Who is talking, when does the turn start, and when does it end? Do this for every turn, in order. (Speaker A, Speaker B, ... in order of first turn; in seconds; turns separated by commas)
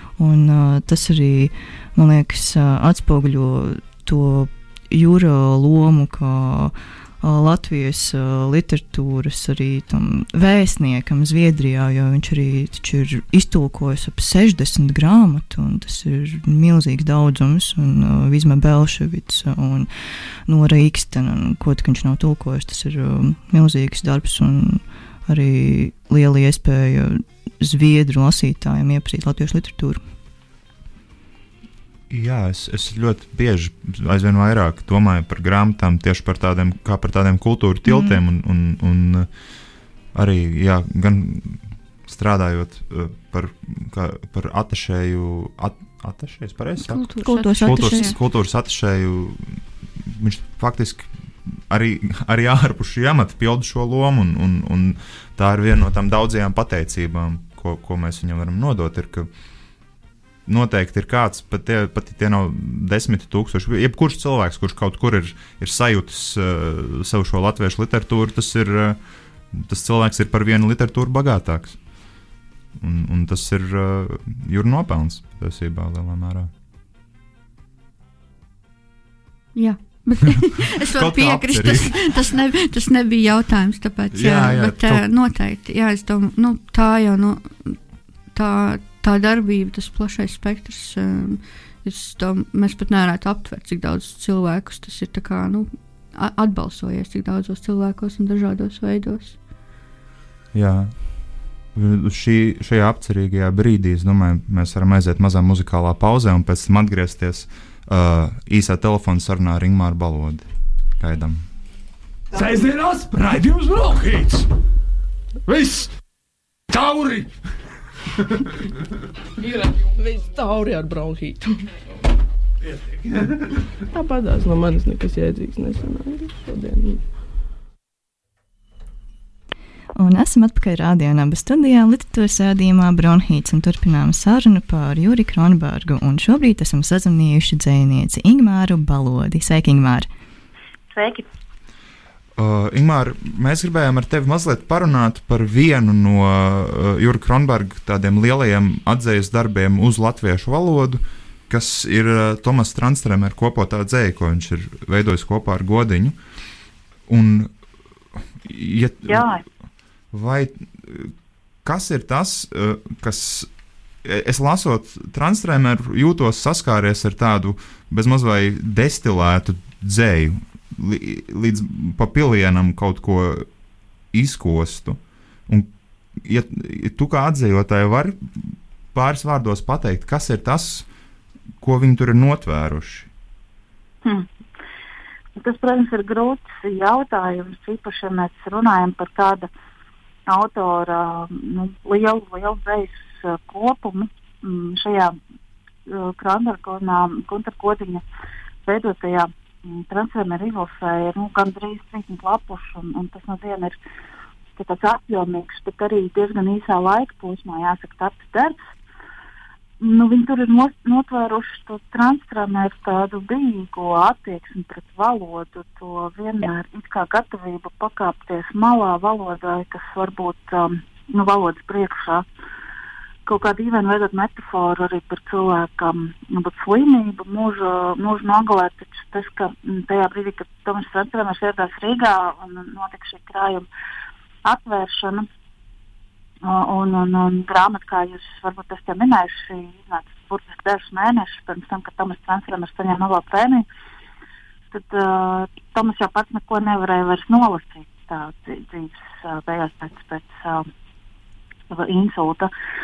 Speaker A: 0.2-19.9, Speaker A: 20.4-30.0, Speaker B: 32.1-39.3, Speaker A: 37.9-38.1, Speaker B: 40.1-59.3, Speaker C: 46.9-48.2, Speaker A: 47.2-48.1, Speaker B: 60.5-69.0, Speaker B: 69.5-71.8, Speaker B: 72.8-76.5, Speaker C: 79.5-87.8, Speaker B: 80.8-82.3, Speaker B: 84.1-85.0, Speaker C: 88.3-99.4, Speaker B: 100.5-110.5, Speaker B: 111.0-111.4, Speaker D: 112.3-114.5, Speaker D: 115.5-115.9, Speaker D: 116.7-117.3, Speaker E: 119.4-121.7, Speaker E: 123.9-127.1, Speaker A: 129.9-140.1, Speaker F: 140.9-141.3, Speaker B: 142.4-156.2, Speaker B: 157.1-157.5, Speaker B: 158.4-159.4, Speaker F: 159.1-159.4, Speaker B: 160.1-163.5, Speaker B: 164.0-173.5, Speaker B: 174.1-180.9, Speaker B: 181.6-183.1, Speaker F: 185.4-189.5, Speaker F: 190.3-195.2, Speaker F: 195.8-198.0, Speaker F: 198.7-203.8, Speaker F: 204.6-208.7, Speaker F: 209.8-222.2, Speaker F: 223.2-233.7, Speaker F: 234.4-235.3, Speaker F: 236.4-243.6, Speaker F: 244.7-250.7, Speaker F: 251.7-252.5